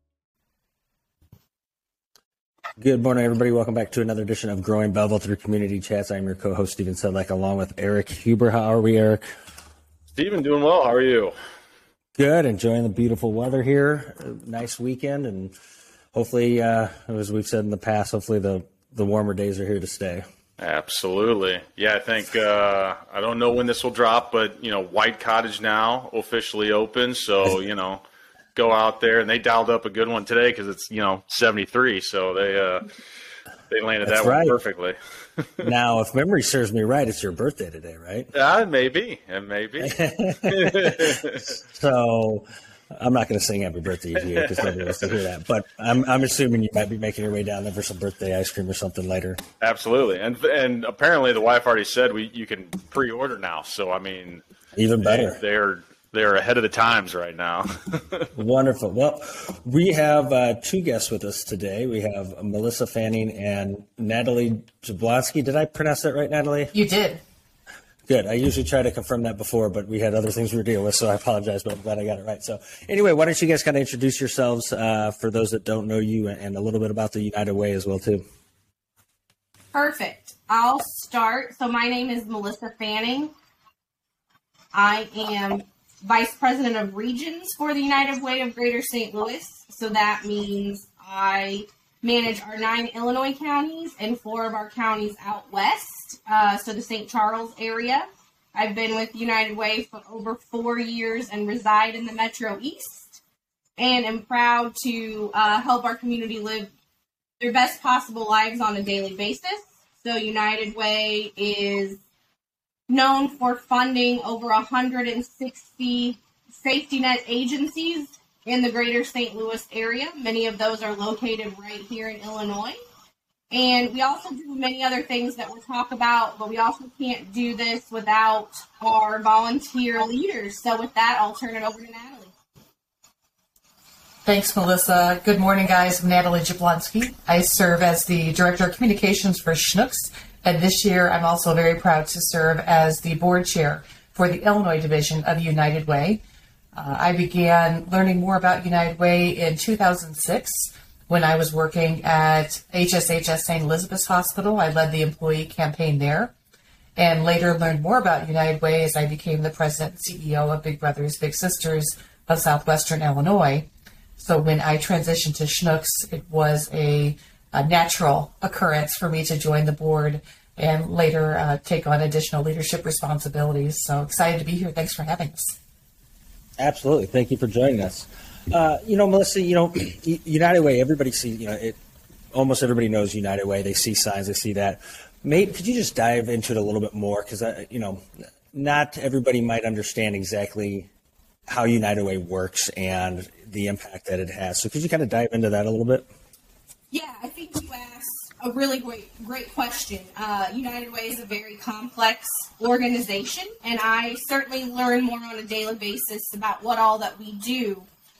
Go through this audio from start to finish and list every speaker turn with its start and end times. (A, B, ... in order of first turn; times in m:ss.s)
0:02.8-0:09.2 A
0:10.2-0:11.3 B
0:12.2-0:15.5 A
0:16.1-0:20.3 A
0:20.6-0:28.0 B
0:28.6-0:32.9 B
0:33.7-0:35.6 B
0:34.0-0:34.6 A
0:35.6-0:38.3 A
0:38.3-0:41.5 B
0:39.8-0:49.4 A
0:44.4-0:44.7 B
0:49.6-0:54.4 B
0:54.8-0:55.4 A
0:55.0-0:58.3 B
0:58.4-1:06.7 A
1:06.7-1:07.2 C
1:08.1-1:18.2 A
1:19.7-1:23.3 D
1:24.7-1:43.2 D
1:43.8-1:46.7 D
1:47.4-1:52.0 D
1:52.9-2:02.8 D
2:03.5-2:12.3 D
2:14.2-2:26.2 C
2:26.7-2:36.3 C
2:37.0-2:55.6 C
2:56.6-3:01.8 A
3:02.3-3:10.9 A
3:11.5-3:16.1 A
3:16.9-3:27.9 D